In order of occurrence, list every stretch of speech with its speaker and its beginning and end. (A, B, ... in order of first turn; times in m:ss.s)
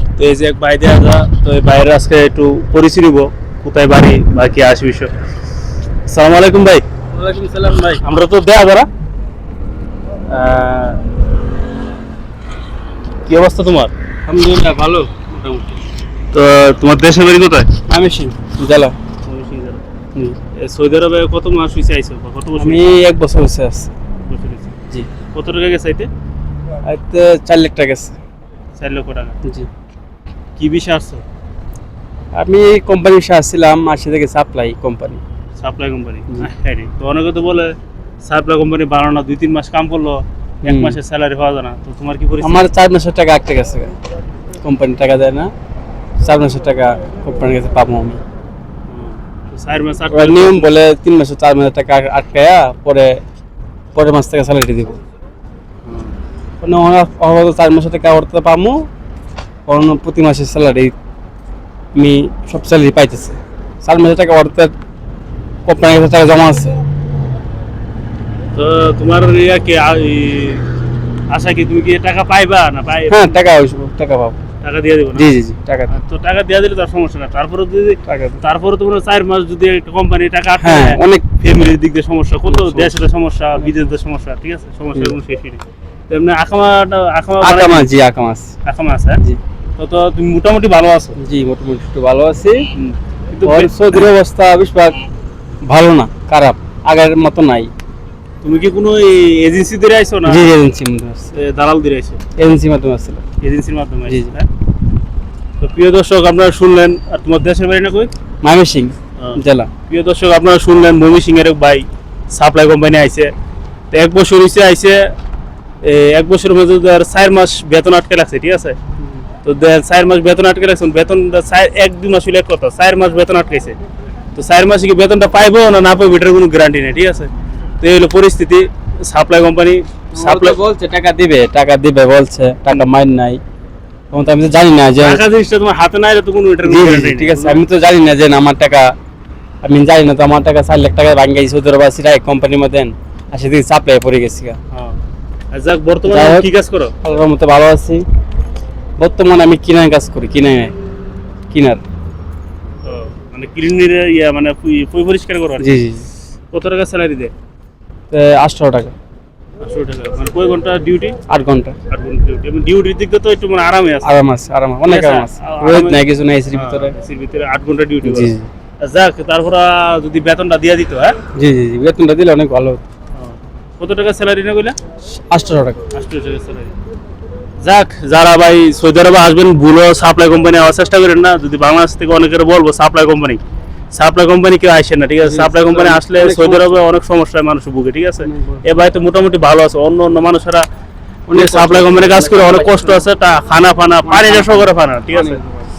0:00.2-0:05.1 A
0:06.1-0:06.8 A
0:07.1-0:08.0 B
0:08.0-0:08.9 A
0:10.3-0:11.1 A
0:13.3-0:13.9 A
0:14.3-0:15.8 B
0:16.3-0:17.7 A
0:17.9-0:19.0 B
0:19.2-0:19.8 A
0:20.5-0:23.0 A
0:22.6-0:23.9 B
0:24.3-0:24.8 A
0:25.3-0:26.1 A
0:26.8-0:28.1 B
0:28.8-0:29.4 A
0:30.6-0:31.2 A
0:32.3-0:35.2 B
0:35.6-0:42.7 A
0:40.6-0:41.0 B
0:42.4-0:44.0 B
0:44.6-0:45.5 B
0:46.2-0:48.2 B
0:48.9-0:50.7 A
0:50.1-0:53.2 B
0:54.0-0:55.0 B
0:55.9-0:56.1 A
0:56.6-0:58.9 B
0:59.7-1:01.0 B
1:02.0-1:04.7 B
1:05.7-1:06.8 B
1:08.5-1:10.7 A
1:11.3-1:13.4 A
1:13.1-1:14.4 B
1:14.6-1:15.3 A
1:15.1-1:15.9 B
1:15.9-1:27.9 A
1:18.1-1:18.4 B
1:20.6-1:21.2 B
1:22.5-1:23.0 B
1:27.4-1:28.5 B
1:28.6-1:29.2 A
1:29.8-1:31.2 A
1:31.2-1:32.7 B
1:32.7-1:33.7 A
1:33.4-1:35.0 B
1:35.7-1:37.7 B
1:38.4-1:40.5 A
1:40.3-1:41.3 B
1:41.3-1:42.2 A
1:42.4-1:43.2 B
1:43.4-1:44.5 A
1:44.1-1:44.4 B
1:45.6-1:48.1 A
1:48.4-1:49.7 B
1:49.2-1:53.3 A
1:53.9-1:55.1 A
1:55.8-1:58.8 A
1:59.4-2:03.8 A
2:04.4-2:10.6 A
2:10.2-2:13.4 B
2:14.1-2:15.2 B
2:15.0-2:17.6 A
2:16.6-2:18.9 B
2:19.6-2:24.6 B
2:24.7-2:25.0 A
2:25.5-2:26.9 A
2:26.1-2:26.5 B
2:27.0-2:28.0 B
2:29.0-2:30.8 B
2:31.5-2:31.8 B
2:32.8-2:35.8 A
2:35.6-2:36.0 B
2:36.5-2:37.3 A
2:38.1-2:39.0 B
2:39.6-2:41.2 A
2:41.3-2:41.8 B
2:41.9-2:44.1 A
2:44.0-2:47.0 B
2:44.9-2:51.2 A
2:48.0-2:48.5 B
2:51.4-2:52.8 B
2:53.1-2:54.8 A
2:55.2-2:55.8 B
2:55.9-2:56.7 A
2:57.6-3:03.4 A
3:03.9-3:10.7 A
3:05.2-3:06.8 B
3:08.2-3:08.6 B
3:11.3-3:13.1 B
3:11.3-3:15.4 A
3:14.0-3:15.6 B